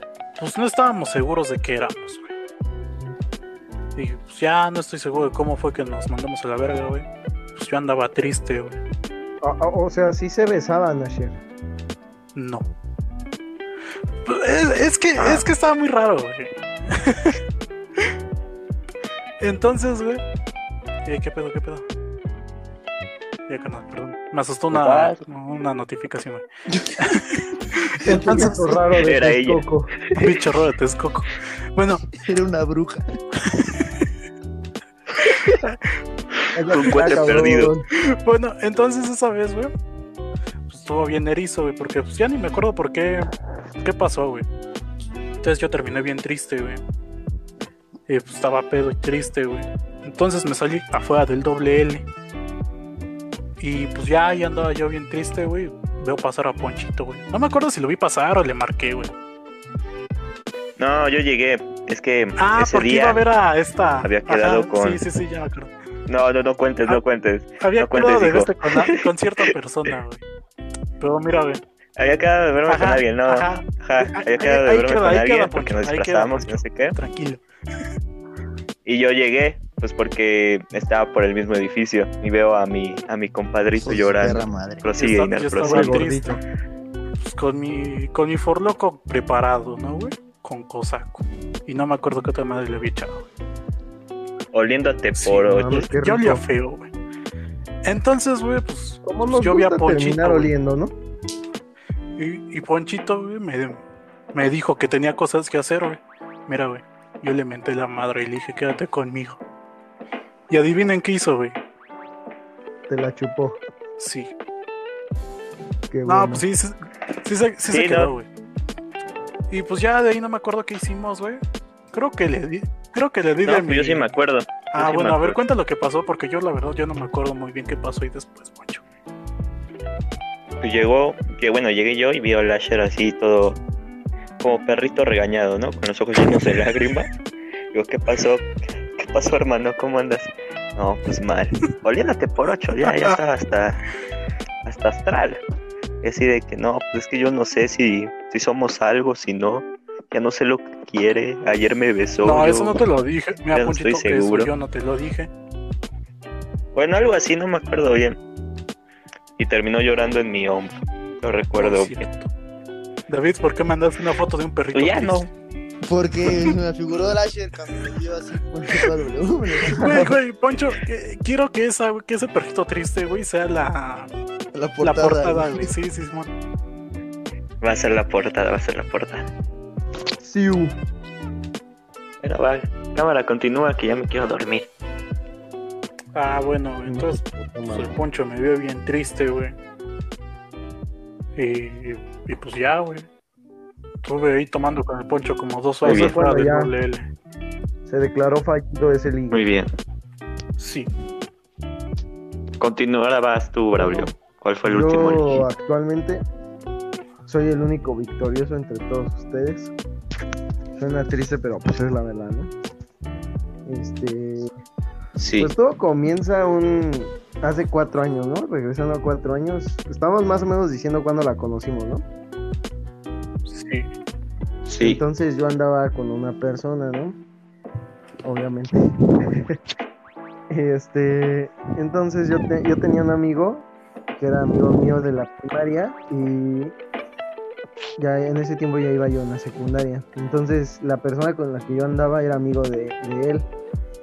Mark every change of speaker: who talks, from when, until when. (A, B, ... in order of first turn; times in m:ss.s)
0:00.4-0:02.3 A
0:04.0-0:08.8 A
0:09.4-0:11.4 B
0:12.4-0:12.7 A
0:14.2-0:17.4 A
0:15.2-0:15.5 C
0:19.4-0:20.2 A
0:21.0-0:21.8 A
0:23.5-0:26.4 A
0:24.7-0:25.2 C
0:26.7-0:27.1 D
0:27.0-0:28.4 A
0:28.0-0:28.6 D
0:28.0-0:30.0 B
0:29.0-0:30.3 C
0:30.1-0:32.2 A
0:32.2-0:33.1 D
0:33.4-0:34.0 A
0:36.5-0:37.9 B
0:36.7-0:37.7 C
0:37.0-0:37.3 A
0:38.0-0:39.7 A
0:40.7-0:44.5 A
0:45.4-0:46.8 A
0:48.1-0:52.0 A
0:53.6-0:59.1 A
1:00.8-1:03.2 C
1:02.4-1:05.7 A
1:04.0-1:05.0 C
1:06.1-1:09.0 C
1:07.6-1:10.2 A
1:11.0-1:11.6 A
1:12.0-1:17.0 C
1:12.7-1:17.4 A
1:18.8-1:26.1 C
1:23.8-1:24.8 D
1:25.0-1:26.4 A
1:25.6-1:26.4 B
1:27.2-1:33.3 A
1:34.5-1:35.9 C
1:35.2-1:36.9 A
1:35.4-1:36.4 B
1:37.8-1:40.5 A
1:39.0-1:41.0 B
1:42.2-1:43.8 A
1:44.3-1:49.4 A
1:50.5-1:51.6 A
1:52.9-1:53.6 B
1:54.0-1:54.3 A
1:55.9-1:56.4 B
1:56.1-1:58.3 A
1:57.7-1:58.1 C
1:59.5-2:01.4 A
2:01.9-2:04.1 A
2:03.4-2:05.4 C
2:04.7-2:08.8 A
2:10.6-2:13.6 C
2:14.4-2:17.1 C
2:17.7-2:23.8 C
2:22.8-2:23.2 A
2:24.6-2:25.4 C
2:26.0-2:32.8 C
2:32.2-2:35.3 A
2:33.5-2:34.5 C
2:36.7-2:38.2 C
2:39.4-2:42.1 C
2:41.5-2:42.3 A
2:43.1-2:45.3 A
2:44.7-2:45.3 C
2:45.9-2:50.1 D
2:49.7-2:54.1 A
2:54.5-2:55.7 D
2:54.8-2:56.3 A
2:57.6-2:59.3 C
3:00.2-3:00.8 B
3:02.2-3:04.7 C
3:06.1-3:09.6 A
3:06.8-3:08.0 B
3:11.4-3:13.1 A
3:14.0-3:17.1 A
3:15.8-3:16.7 B
3:15.8-3:16.2 C
3:17.9-3:19.5 B
3:19.3-3:19.7 C
3:20.6-3:20.9 A
3:22.6-3:25.5 C
3:23.8-3:24.1 B
3:24.6-3:26.2 B
3:27.3-3:29.7 B
3:30.7-3:32.5 B
3:33.6-3:34.5 B
3:35.2-3:35.5 C
3:35.4-3:42.0 B
3:43.5-3:43.9 A
3:44.7-3:45.0 C
3:44.8-3:47.2 B
3:48.2-3:48.8 B
3:50.5-3:53.7 B
3:54.2-3:56.7 B
3:58.0-4:03.5 B